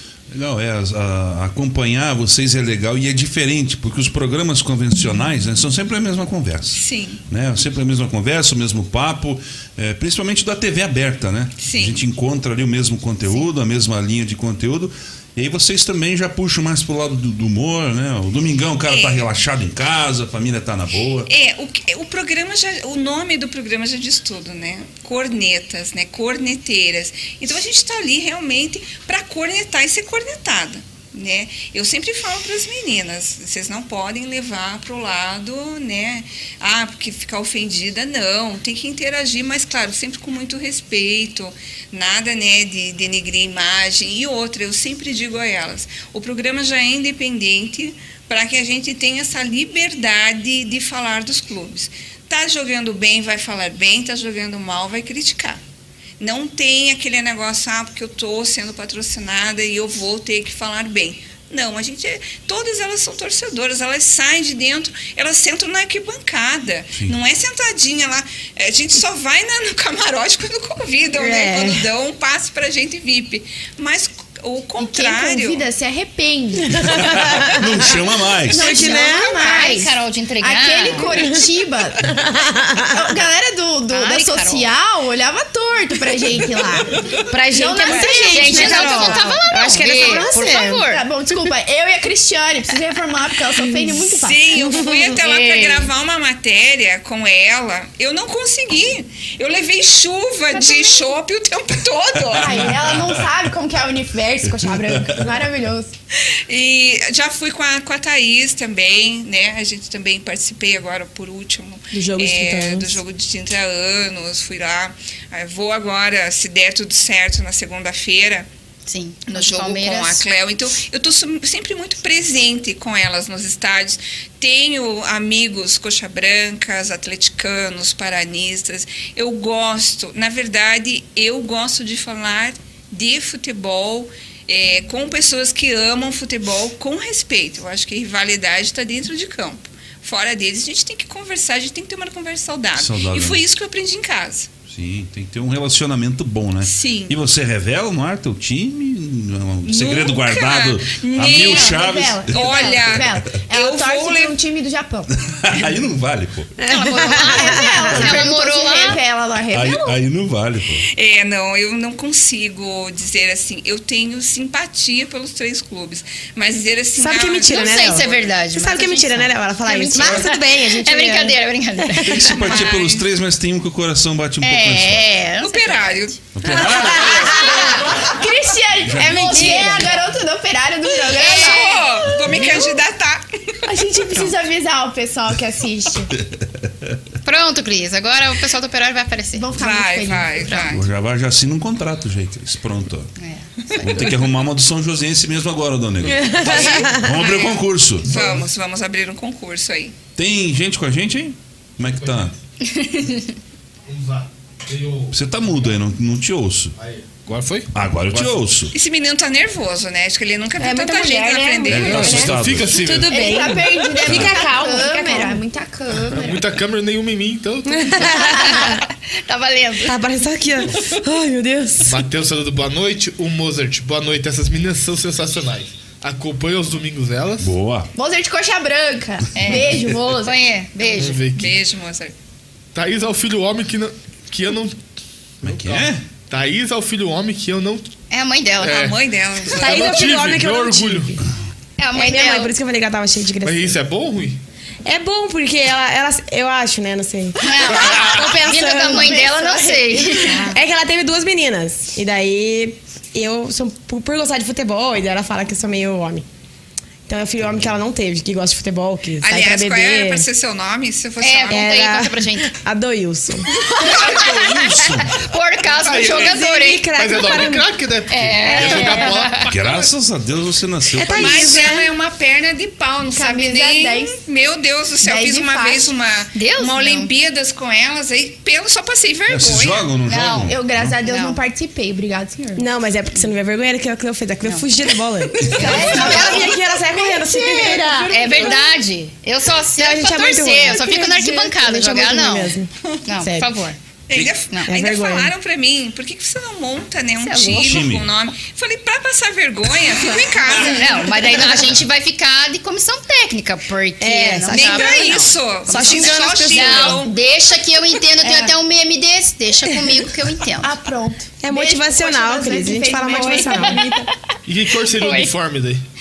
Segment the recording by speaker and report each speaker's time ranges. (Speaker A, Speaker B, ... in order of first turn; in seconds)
Speaker A: 0.3-21.3, 76.9-78.8, 102.2-103.2, 104.6-105.2, 142.7-143.4, 144.7-153.2, 155.3-156.6, 159.5-160.8, 172.2-175.1, 176.3-177.0, 178.8-179.3, 186.3-186.9, 190.7-193.1, 193.8-198.3, 200.2-202.3, 205.1-206.7, 207.7-208.7, 211.7-212.9, 214.0-214.4, 227.4-227.9, 235.4-236.0, 263.8-265.2, 269.4-271.7, 279.3-280.9, 297.5-298.1
Speaker B: 6.7-7.2, 11.6-12.0, 18.9-19.3, 21.3-55.6, 56.2-75.6, 78.8-79.9, 94.0-102.9, 106.5-118.5, 119.3-144.5, 146.6-147.2, 149.6-154.4, 160.9-168.4, 172.2-173.1, 175.4-177.4, 181.1-183.3, 189.5-190.8, 196.4-199.9, 208.7-212.3, 231.2-232.1, 238.6-240.1, 259.2-261.6, 263.8-264.2, 271.1-279.9, 294.1-301.7, 304.5-307.2
Speaker C: 71.1-71.9, 76.7-77.5, 78.5-79.3, 82.1-83.1, 87.3-90.8, 111.9-113.0, 156.6-158.2, 166.9-172.2, 176.4-177.8, 179.0-179.9, 196.1-197.1, 210.6-215.4, 217.7-218.8, 219.8-222.0, 239.6-241.2, 241.9-243.8, 244.8-249.2, 250.4-256.2, 257.1-260.2, 261.5-263.5, 266.0-267.7, 270.9-271.9, 282.6-288.6, 289.7-293.5, 294.6-295.3, 301.3-301.6, 304.0-307.0, 309.7-309.9, 311.4-314.0
Speaker D: 74.8-77.0, 78.5-82.2, 82.9-94.4, 100.5-101.1, 102.3-105.9, 151.3-155.1, 157.0-160.0, 177.3-182.8, 183.6-186.1, 189.3-190.5, 213.1-216.4, 227.9-230.4, 248.8-250.6, 273.1-274.2, 275.0-275.9, 280.4-282.6, 285.5-288.6, 308.2-308.5, 310.6-314.1
Speaker E: 79.3-81.2, 83.9-84.7, 88.1-91.1, 95.1-95.9, 118.9-120.2, 156.6-159.0, 167.5-172.7, 174.4-177.9, 179.2-180.0, 187.2-189.5, 190.4-190.7, 193.2-194.1, 202.6-203.3, 218.1-219.9, 229.3-231.2, 238.1-238.9, 241.8-242.5, 247.4-250.5, 261.2-262.5, 263.6-266.9, 268.1-269.5, 276.3-277.1, 280.0-281.4, 285.6-286.1, 288.1-293.8, 294.5-294.7, 297.2-297.8, 300.0-310.7, 313.2-313.9, 314.8-315.3
Speaker F: 198.1-198.4, 201.8-202.3, 203.8-205.8, 206.8-208.3, 212.0-213.3, 216.1-218.2, 221.8-227.5, 230.8-231.6, 232.7-234.8, 235.4-237.9, 238.6-238.9, 239.5-241.1, 243.4-244.4, 247.8-248.2, 265.8-269.8, 314.4-315.8